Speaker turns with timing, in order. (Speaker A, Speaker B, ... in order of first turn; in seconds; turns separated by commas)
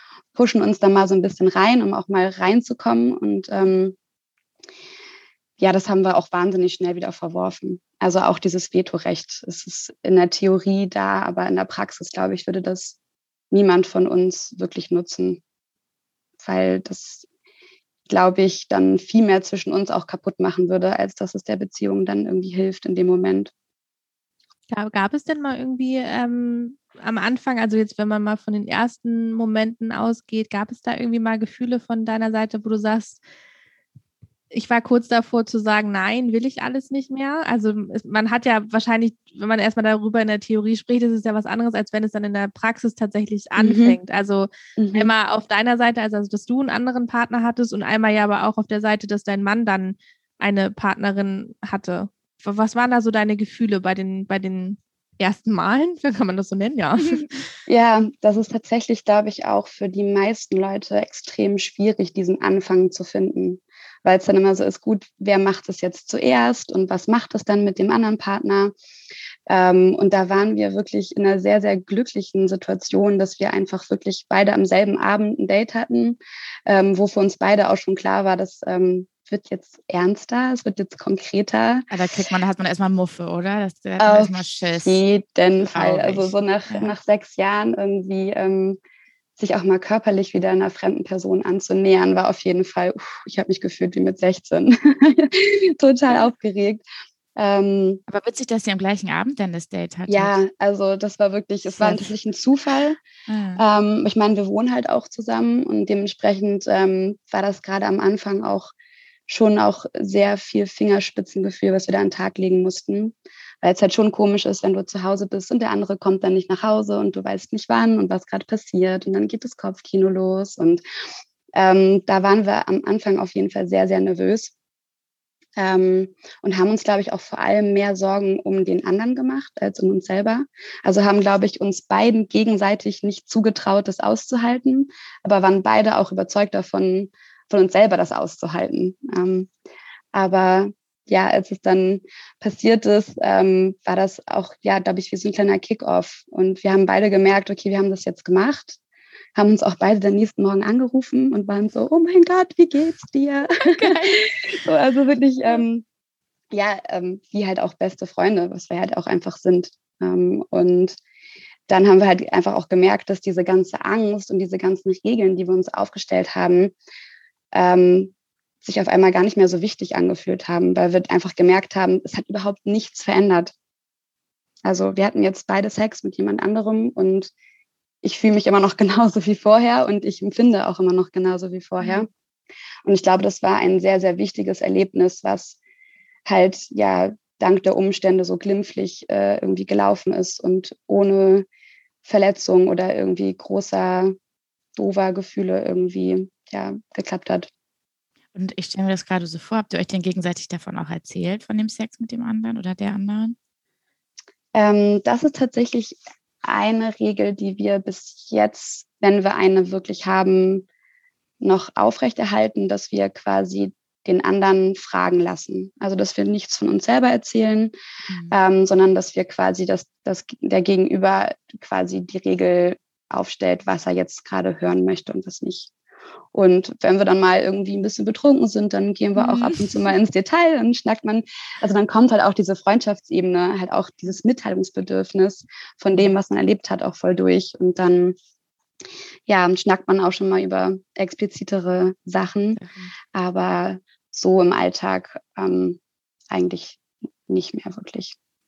Speaker A: 0.3-4.0, Speaker A: 5.6-13.0, Speaker A: 13.5-15.4, Speaker A: 16.4-17.3, Speaker A: 18.1-23.5, Speaker B: 24.7-33.2, Speaker B: 34.5-57.4, Speaker A: 43.6-44.0, Speaker A: 44.8-45.1, Speaker A: 57.7-68.7, Speaker A: 69.5-81.9, Speaker C: 81.9-85.0, Speaker A: 84.0-88.8, Speaker C: 85.6-86.9, Speaker A: 89.4-96.8, Speaker A: 97.4-98.0, Speaker C: 98.1-100.3, Speaker A: 100.1-103.0, Speaker C: 101.8-102.1, Speaker C: 103.3-103.6, Speaker A: 103.6-108.7, Speaker A: 109.3-120.8, Speaker A: 121.5-124.5, Speaker A: 125.6-139.5, Speaker A: 140.1-148.8, Speaker A: 149.3-155.8, Speaker C: 153.6-154.5, Speaker A: 156.5-161.0, Speaker A: 161.7-166.7, Speaker A: 167.5-173.5, Speaker A: 174.7-177.3, Speaker A: 178.0-182.1, Speaker C: 181.8-182.1, Speaker A: 182.8-185.6, Speaker A: 186.3-191.5, Speaker A: 192.0-194.2, Speaker A: 194.8-197.5, Speaker C: 198.3-203.4, Speaker A: 204.6-210.7, Speaker A: 211.4-217.7, Speaker C: 218.1-218.4, Speaker A: 218.3-225.7, Speaker A: 226.3-238.2, Speaker C: 229.2-229.8, Speaker A: 239.3-242.6, Speaker C: 242.6-242.9, Speaker A: 243.2-245.8, Speaker A: 246.3-248.2